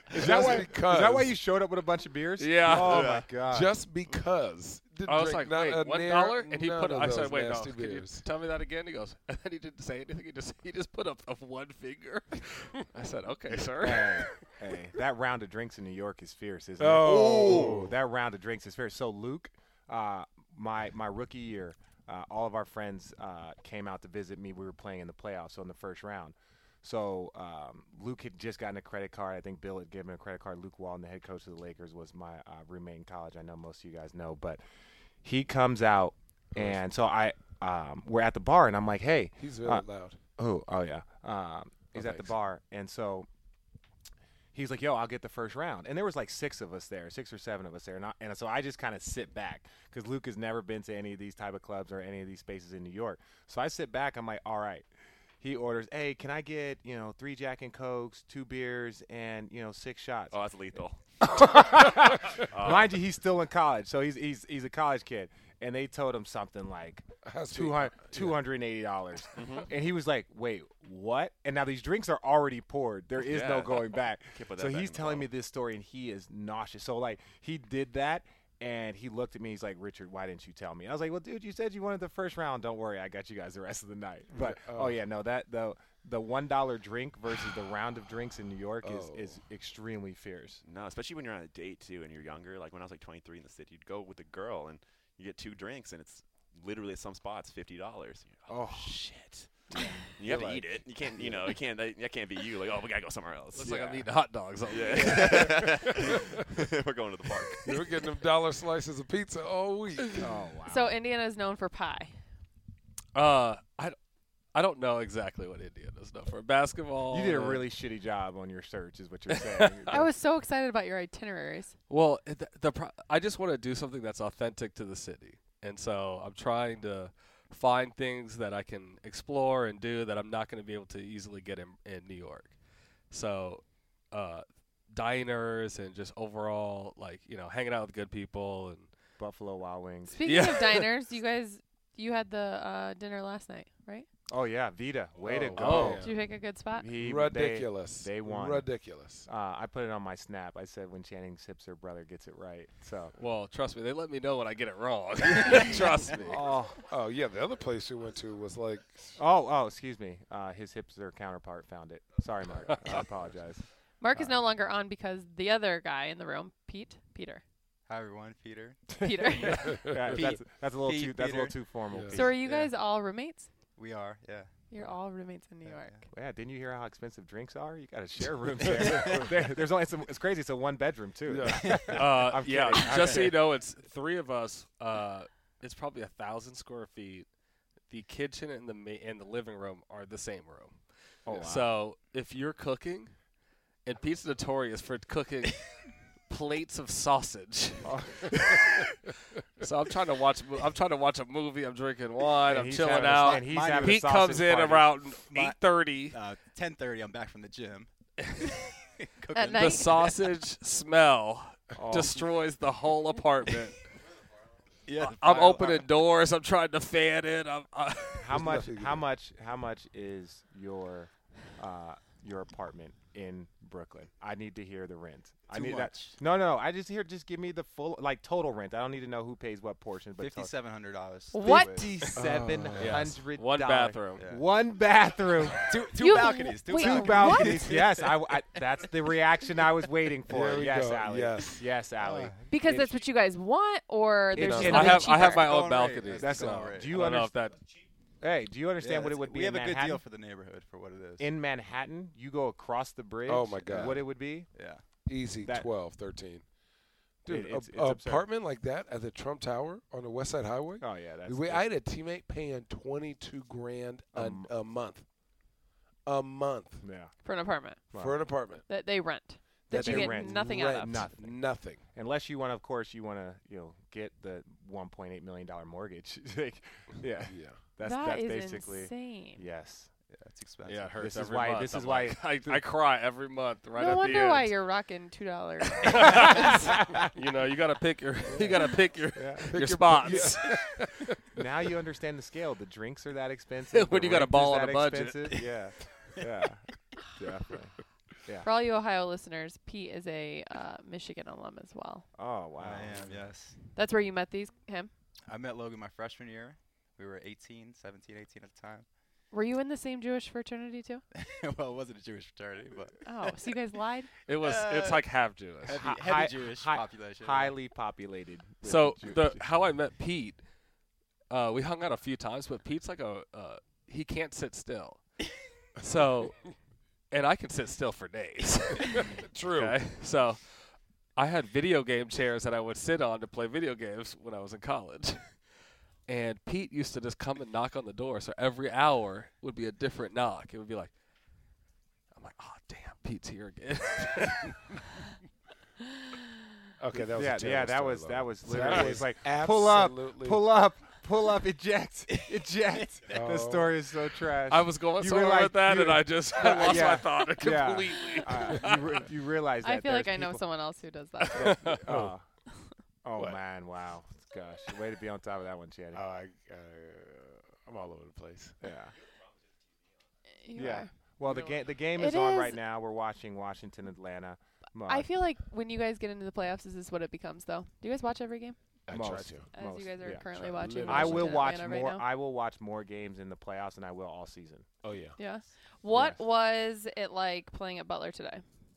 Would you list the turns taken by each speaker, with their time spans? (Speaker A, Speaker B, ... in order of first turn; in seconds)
Speaker A: 0.1-1.3, 2.7-8.2, 16.8-17.9, 39.4-40.2, 41.9-42.3, 67.2-68.4, 84.3-85.0, 88.8-89.3, 107.6-110.3, 145.2-146.2, 146.9-149.3, 156.9-159.2, 171.9-172.2, 181.3-181.9, 218.3-219.0, 232.1-233.1, 240.3-241.6, 244.3-244.8, 253.3-254.1, 255.1-256.4, 257.2-265.0, 266.1-266.8, 267.9-268.6, 269.7-271.8, 277.3-277.6, 288.3-288.7, 289.5-291.4, 329.2-329.8, 346.8-350.4, 353.1-353.8, 361.6-362.1, 365.9-368.6, 378.9-379.5, 380.2-381.6, 384.8-385.1
Speaker B: 0.1-3.8, 13.8-34.6, 35.2-39.9, 40.4-43.3, 44.5-54.9, 55.4-60.4, 61.2-90.6, 98.5-100.6, 103.6-104.0, 110.2-111.0, 117.1-120.1, 139.2-140.2, 144.3-146.1, 146.7-148.7, 149.2-153.1, 156.2-156.8, 159.2-163.6, 169.1-172.7, 176.1-183.4, 191.2-191.7, 197.8-198.4, 202.4-204.9, 211.8-212.2, 218.2-230.5, 231.4-235.7, 236.7-242.9, 244.4-245.1, 246.1-247.3, 248.2-250.0, 251.2-254.5, 257.3-258.2, 260.8-261.6, 264.1-264.5, 266.8-267.1, 267.9-268.2, 269.7-279.9, 281.0-282.6, 286.2-286.5, 289.1-290.5, 291.3-298.5, 302.1-303.2, 315.8-319.4, 346.9-360.4, 361.4-362.2, 363.0-366.0, 368.6-368.9, 370.5-375.1, 378.9-384.7, 385.9-386.2
Speaker C: 2.4-3.0, 5.0-14.4, 103.5-106.1, 113.1-114.0, 114.5-117.6, 119.3-120.0, 121.9-132.5, 133.1-138.9, 140.2-140.9, 145.6-146.0, 153.2-156.4, 181.9-187.3, 187.9-190.8, 191.3-193.1, 193.8-198.9, 199.6-206.2, 208.2-208.5, 209.5-213.8, 215.0-218.3, 232.8-234.2, 244.6-247.6, 280.6-284.5, 285.7-290.8, 293.7-295.4, 314.3-315.8, 318.6-320.4, 321.3-325.0, 325.8-326.4, 327.1-335.4, 336.1-340.9, 342.1-344.7, 354.5-359.0, 361.2-362.0
Speaker D: 2.8-3.3, 17.3-17.7, 60.3-61.0, 62.4-62.9, 69.3-69.7, 73.2-75.3, 90.6-103.9, 104.7-107.8
Speaker E: 110.7-112.2, 119.9-121.8, 140.1-144.1, 145.9-146.9, 164.0-167.4, 169.0-169.7, 172.1-173.5, 174.7-176.1, 209.3-210.1, 231.3-232.0, 235.9-237.7, 242.5-245.5, 267.2-267.9, 268.6-271.1, 277.8-279.4, 283.7-286.6, 298.4-302.0, 303.7-304.9, 309.3-311.0, 313.0-314.1, 359.6-361.7, 370.4-370.9, 371.9-372.6, 374.9-378.6, 379.5-382.0, 385.2-388.4
Speaker F: 167.9-171.6, 173.8-174.6, 175.6-176.1, 181.5-183.3, 203.2-204.2, 205.2-210.2, 214.9-215.9, 225.5-226.2, 230.2-232.1, 234.2-234.4, 235.6-238.9, 242.0-242.5, 244.8-247.2, 248.8-251.3, 254.5-254.8, 280.1-281.0, 302.6-303.6, 305.3-308.9, 311.1-313.0, 314.3-315.1, 315.6-317.6, 352.1-352.9